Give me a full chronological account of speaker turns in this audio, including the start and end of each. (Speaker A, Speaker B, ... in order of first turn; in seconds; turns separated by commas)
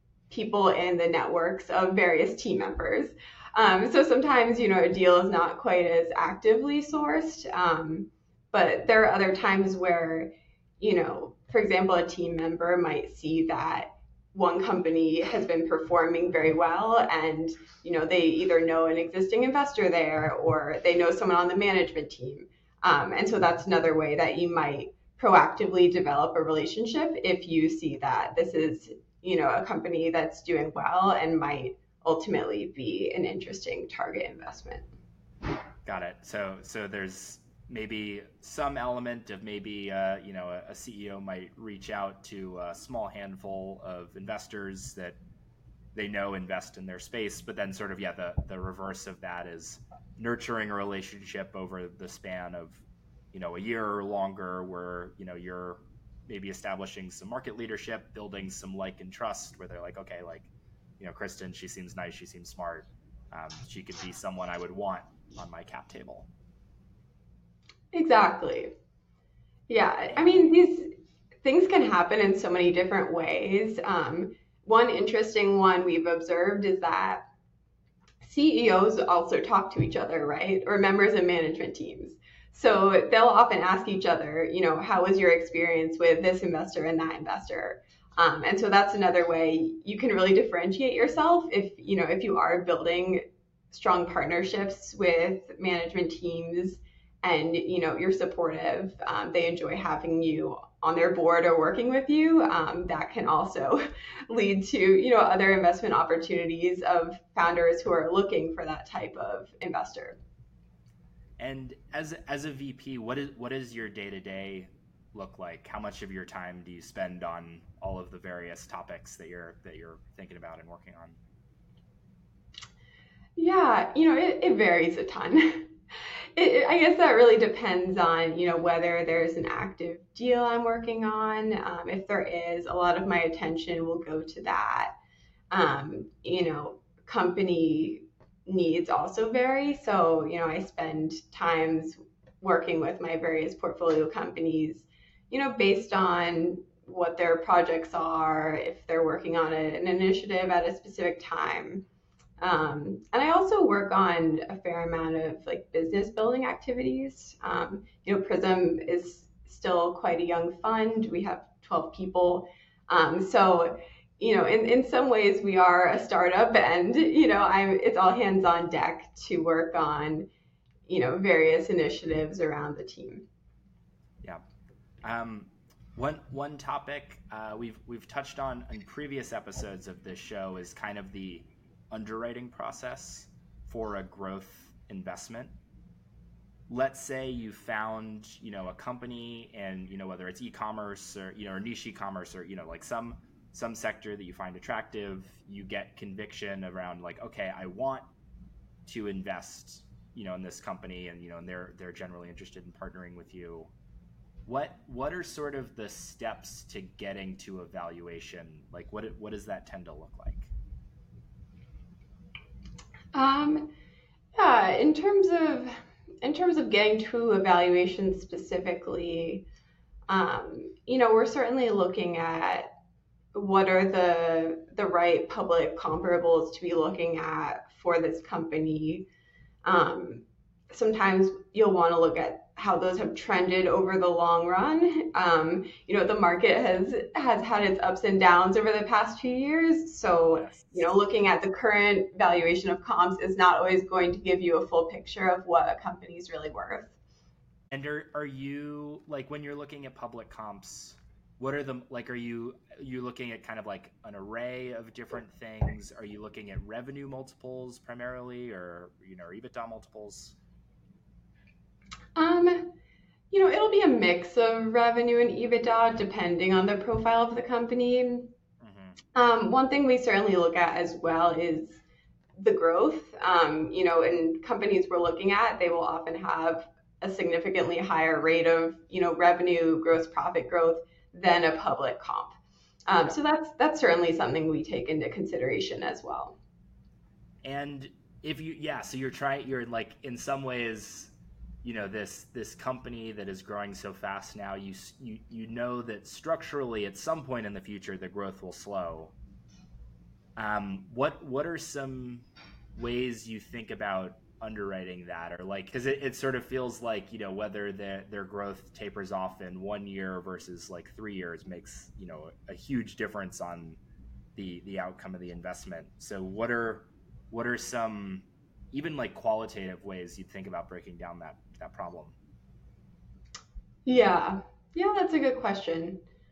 Speaker A: 0.3-34.9, Speaker B: 35.8-45.2, Speaker B: 45.9-66.3, Speaker A: 67.9-68.7, Speaker A: 69.7-70.9, Speaker A: 71.4-77.2, Speaker A: 78.2-110.2, Speaker B: 111.4-121.2, Speaker A: 123.4-125.7, Speaker A: 126.3-134.9, Speaker A: 135.5-151.8, Speaker A: 152.4-170.3, Speaker A: 170.9-173.2, Speaker B: 175.0-185.5, Speaker B: 186.7-198.1, Speaker B: 198.8-203.7, Speaker B: 204.4-210.5, Speaker A: 213.1-213.7, Speaker A: 214.3-219.4, Speaker A: 220.1-222.7, Speaker A: 223.3-229.1, Speaker A: 229.6-246.9, Speaker B: 240.3-240.9, Speaker B: 247.7-260.4, Speaker A: 262.1-262.7, Speaker A: 263.3-268.3, Speaker B: 268.6-269.0, Speaker A: 269.1-271.8, Speaker A: 272.4-286.4, Speaker B: 287.4-299.1, Speaker B: 300.4-313.8, Speaker B: 314.3-322.1, Speaker A: 323.9-326.0